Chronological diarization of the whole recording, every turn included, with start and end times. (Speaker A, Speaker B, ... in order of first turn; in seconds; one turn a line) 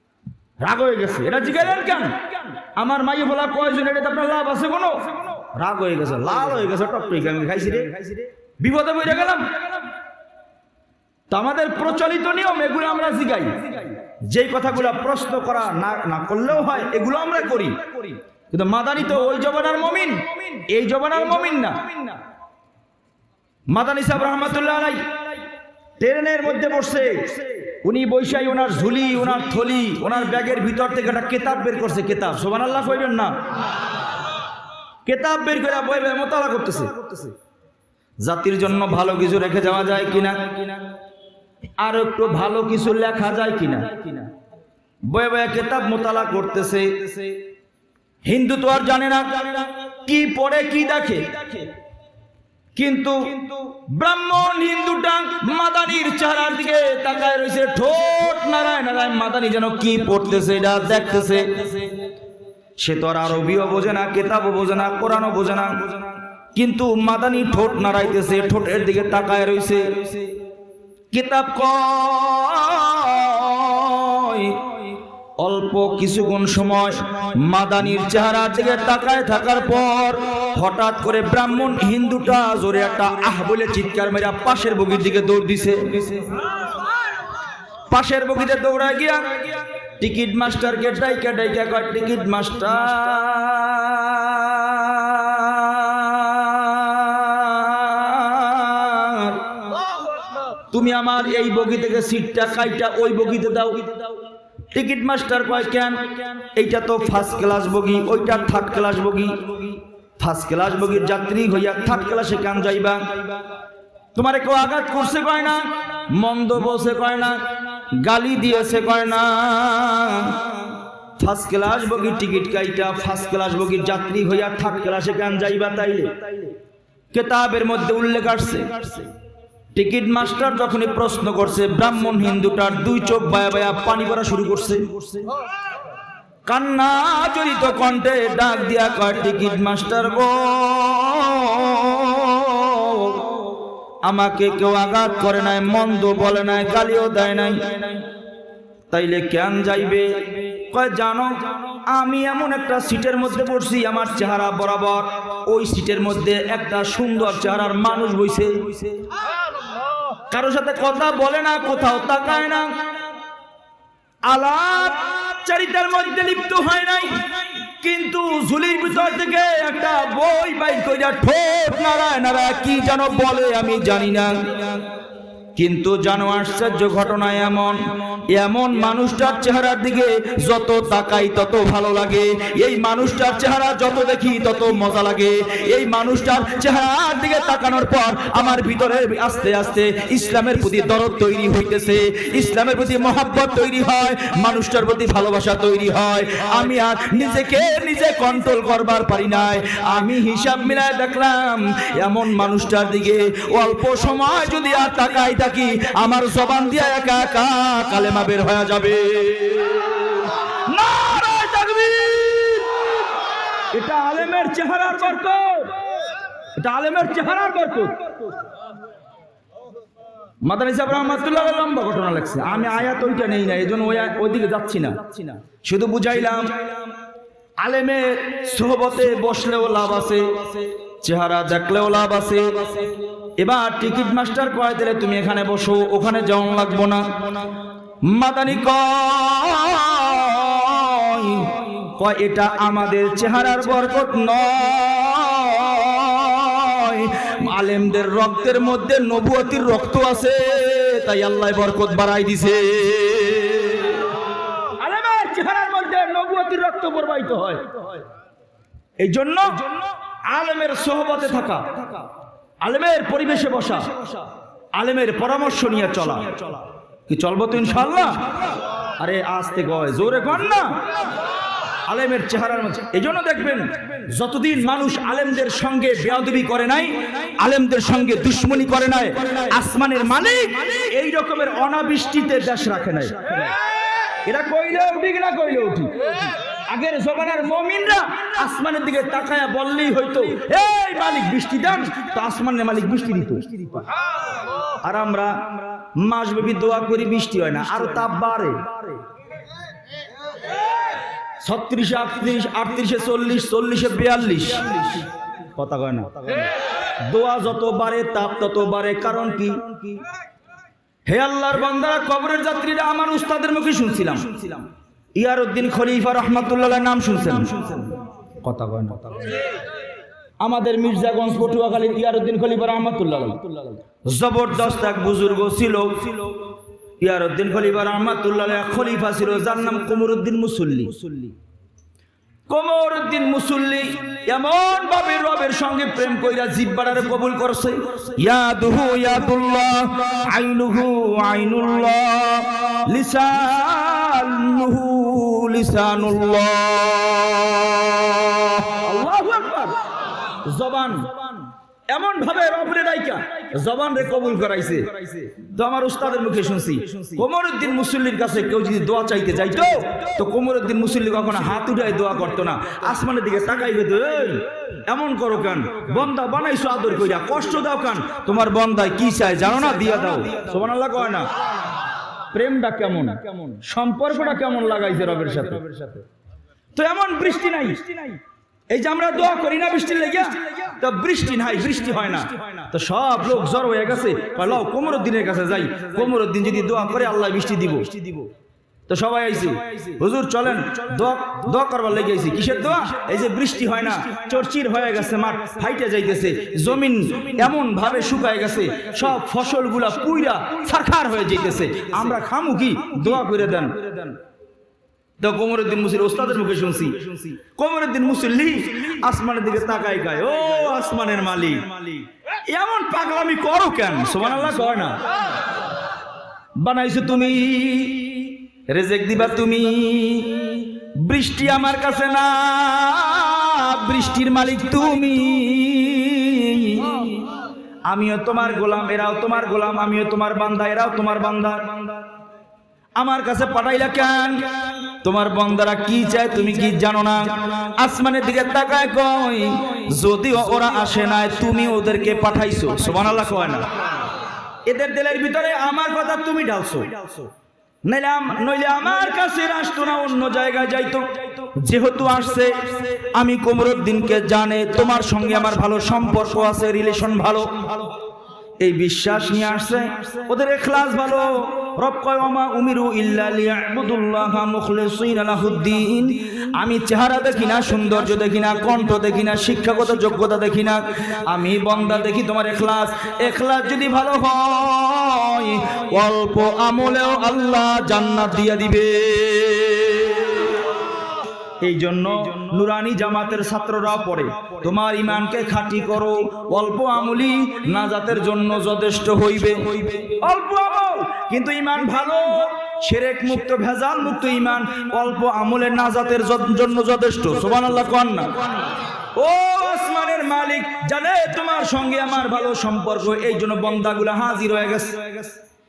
Speaker A: 0.6-9.8
Speaker A: 11.3-22.2
Speaker A: 23.7-25.4
Speaker A: 26.0-33.4
Speaker A: 35.0-37.3
Speaker A: 38.2-40.9
Speaker A: 41.8-44.3
Speaker A: 45.1-47.4
Speaker A: 48.2-51.7
Speaker A: 52.8-62.0
Speaker A: 62.8-70.3
Speaker A: 71.1-86.5
Speaker A: 87.9-99.8
Speaker A: 100.7-113.4
Speaker A: 114.1-126.5
Speaker A: 127.1-129.1
Speaker A: 129.7-135.3
Speaker A: 136.5-148.1
Speaker A: 148.9-159.0
Speaker A: 160.3-162.9
Speaker A: 164.3-174.9
Speaker A: 175.5-213.0
Speaker A: 213.7-215.7
Speaker A: 216.6-218.1
Speaker A: 220.4-226.8
Speaker A: 227.6-237.5
Speaker A: 238.0-258.0
Speaker A: 259.0-262.1
Speaker A: 262.6-268.3
Speaker A: 269.0-270.8
Speaker A: 271.9-283.6
Speaker A: 284.2-293.8
Speaker A: 294.8-299.0
Speaker A: 301.4-310.0
Speaker A: 311.1-319.1
Speaker A: 320.4-331.4
Speaker A: 332.5-349.9
Speaker A: 350.4-371.3
Speaker A: 372.3-376.0
Speaker A: 376.7-388.3
Speaker A: 388.9-404.1
Speaker A: 405.2-415.0
Speaker A: 416.6-432.0
Speaker A: 433.0-443.7
Speaker A: 444.6-447.3
Speaker A: 447.8-458.0
Speaker A: 458.6-480.6
Speaker A: 481.6-498.4
Speaker A: 499.1-505.4